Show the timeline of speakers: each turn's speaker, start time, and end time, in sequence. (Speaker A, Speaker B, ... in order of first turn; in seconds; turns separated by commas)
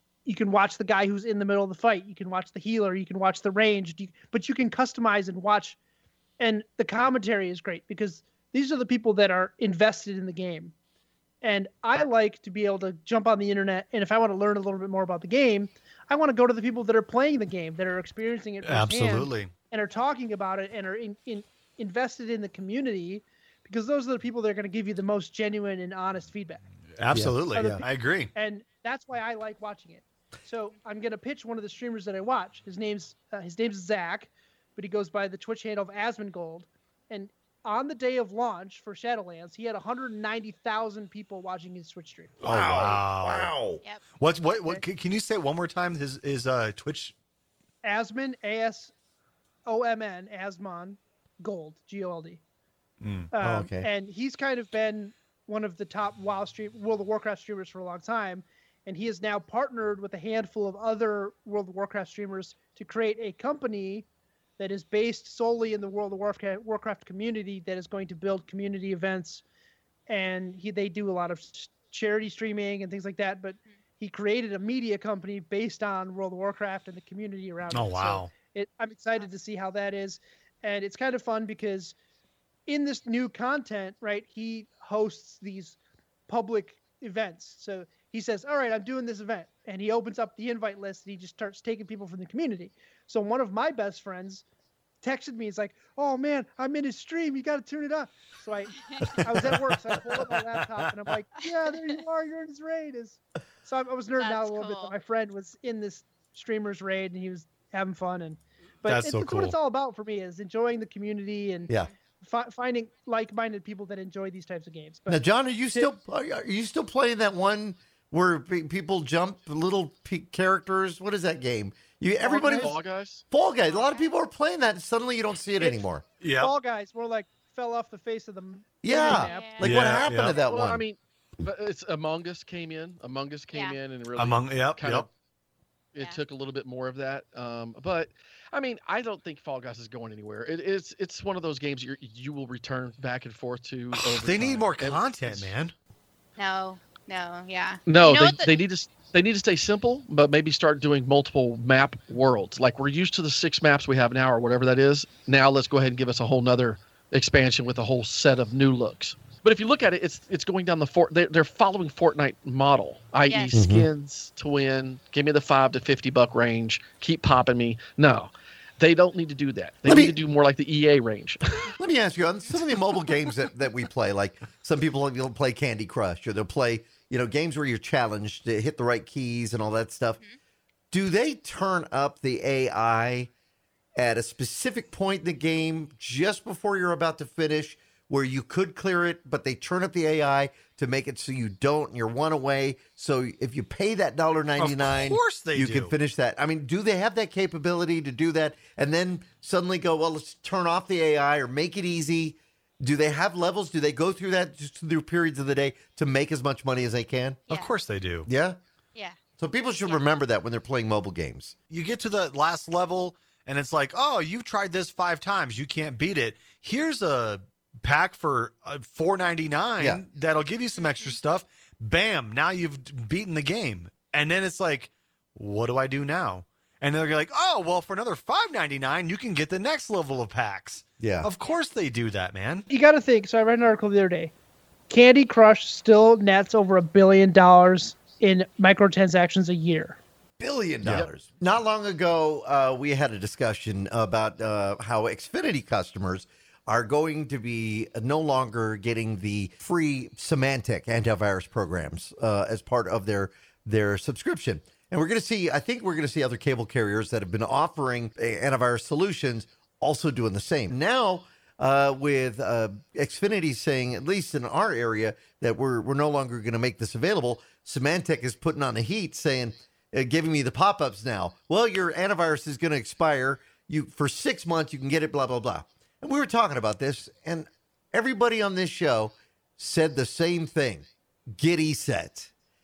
Speaker A: 0.2-5.8, Speaker A: 6.4-10.7, Speaker A: 11.4-26.6, Speaker B: 18.6-19.5, Speaker B: 27.0-28.3, Speaker C: 27.1-27.8, Speaker A: 27.5-42.4, Speaker C: 42.4-43.8, Speaker B: 42.4-43.5, Speaker B: 44.2-47.1, Speaker A: 47.8-48.9, Speaker A: 49.7-52.4, Speaker B: 53.0-53.3, Speaker A: 53.3-64.1, Speaker C: 53.4-53.9, Speaker A: 64.6-69.4, Speaker A: 70.1-82.0, Speaker B: 77.7-78.3, Speaker A: 82.7-85.8, Speaker A: 86.3-94.4, Speaker A: 95.0-111.7, Speaker D: 104.2-104.9, Speaker B: 108.8-109.6, Speaker A: 112.2-115.9, Speaker C: 115.1-122.8, Speaker E: 122.2-123.2, Speaker A: 122.3-122.7, Speaker C: 123.3-126.0, Speaker D: 123.7-124.1, Speaker B: 126.2-126.5, Speaker A: 126.4-129.6, Speaker C: 128.8-130.8, Speaker D: 129.1-129.7, Speaker B: 129.6-130.4, Speaker E: 130.3-135.1, Speaker D: 133.5-133.8, Speaker B: 134.2-135.1, Speaker E: 135.9-145.5, Speaker B: 143.9-145.7, Speaker D: 146.4-148.6, Speaker E: 147.9-171.6, Speaker D: 163.3-163.6, Speaker C: 163.5-163.9, Speaker C: 169.8-170.2, Speaker C: 171.7-180.2, Speaker C: 180.9-183.3, Speaker C: 184.0-207.4, Speaker B: 194.6-195.9, Speaker B: 207.5-208.3, Speaker C: 208.3-208.6, Speaker C: 209.4-211.5, Speaker B: 211.7-232.7, Speaker C: 231.0-231.3, Speaker A: 232.7-234.3, Speaker A: 234.9-240.0, Speaker C: 240.4-282.3, Speaker B: 240.8-241.1